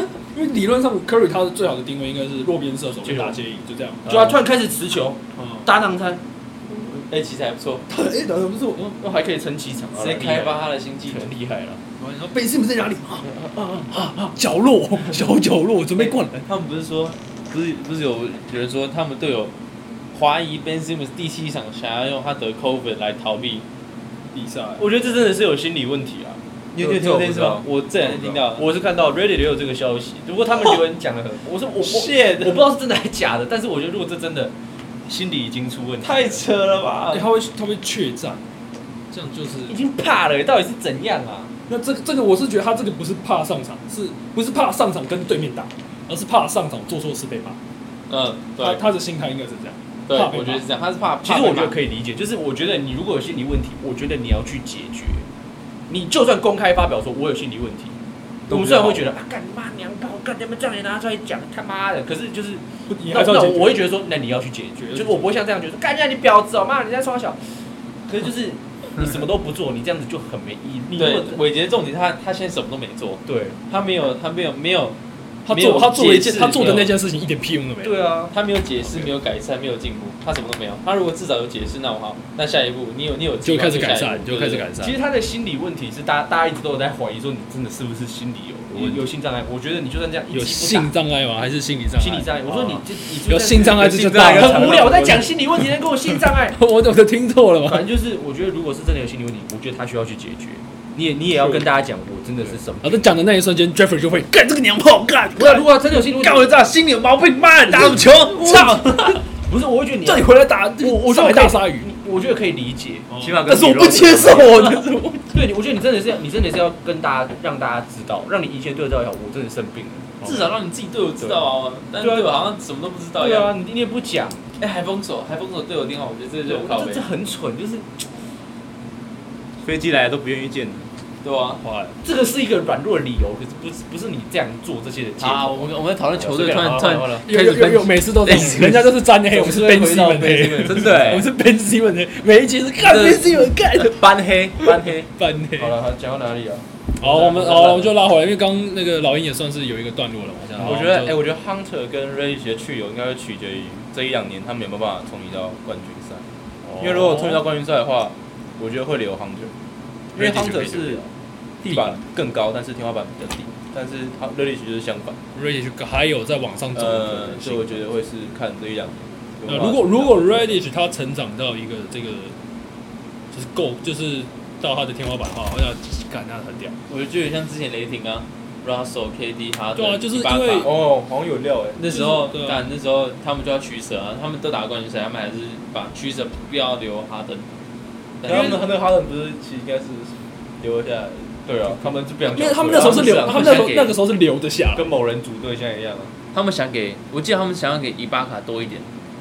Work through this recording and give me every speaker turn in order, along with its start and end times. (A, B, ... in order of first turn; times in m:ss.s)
0:00.3-0:04.1 A
0:03.0-0:03.4 B
0:04.1-0:04.3 C
0:04.1-0:06.2 B
0:05.4-0:05.7 A
0:06.7-0:07.8 C
0:07.9-0:09.0 A
0:09.0-0:11.8 B
0:10.0-0:11.3 C
0:12.0-0:13.3 A
0:13.9-0:16.5 A
0:16.0-0:19.5 C
0:20.1-0:23.7 C
0:24.3-0:24.9 A
0:24.8-0:26.4 B
0:26.8-0:28.7 C
0:26.8-0:28.4 D
0:28.5-0:34.5 B
0:35.1-0:36.4 B
0:36.0-0:37.2 C
0:37.1-0:38.4 A
0:39.1-0:39.8 A
0:39.7-0:41.5 B
0:41.7-0:47.6 A
0:48.1-0:48.8 C
0:48.6-0:50.7 A
0:50.1-0:51.8 C
0:51.2-0:55.2 B
0:55.9-0:58.0 B
0:58.5-1:07.4 B
0:58.5-0:58.8 D
1:02.9-1:03.8 A
1:04.8-1:05.3 A
1:08.1-1:11.4 B
1:10.9-1:15.0 C
1:13.3-1:13.6 B
1:15.5-1:18.0 A
1:15.5-1:17.0 C
1:17.8-1:18.3 B
1:18.3-1:24.7 C
1:23.4-1:24.9 A
1:24.8-1:30.9 B
1:28.7-1:29.0 A
1:30.3-1:32.4 A
1:32.0-1:36.6 B
1:33.0-1:37.9 A
1:33.8-1:35.2 D
1:37.7-1:43.1 B
1:42.8-1:49.2 A
1:45.4-1:46.7 B
1:47.7-2:00.5 B
1:48.5-1:49.0 C
1:50.0-1:51.9 A
1:53.1-1:55.3 A
1:53.2-1:54.0 D
2:00.2-2:03.5 C
2:01.2-2:01.5 B
2:02.0-2:02.5 B
2:03.2-2:04.5 B
2:04.6-2:07.1 C
2:06.4-2:08.0 B
2:09.6-2:10.9 D
2:11.2-2:11.6 C
2:11.6-2:12.0 A
2:12.0-2:17.3 B
2:15.2-2:19.0 C
2:17.3-2:24.1 A
2:19.2-2:21.3 B
2:22.9-2:25.1 D
2:24.7-2:25.8 A
2:25.6-2:27.9 B
2:27.0-2:31.2 A
2:30.5-2:30.8 B
2:30.6-2:36.2 D
2:36.7-2:37.4 A
2:36.8-2:39.5 D
2:40.2-2:41.1 D
2:40.2-2:41.0 B
2:41.6-2:45.2 D
2:45.4-2:47.8 A
2:46.7-2:50.5 D
2:49.5-2:52.4 A
2:53.3-2:56.8 A
2:56.9-3:00.8 C
2:59.8-3:00.7 A
3:00.6-3:01.8 D
3:01.8-3:07.4 C
3:01.8-3:02.7 A
3:08.2-3:08.6 C
3:08.2-3:12.0 D
3:08.3-3:08.6 B
3:11.5-3:13.7 B
3:12.3-3:14.9 A
3:12.7-3:14.0 C
3:14.7-3:16.1 B
3:16.3-3:18.9 C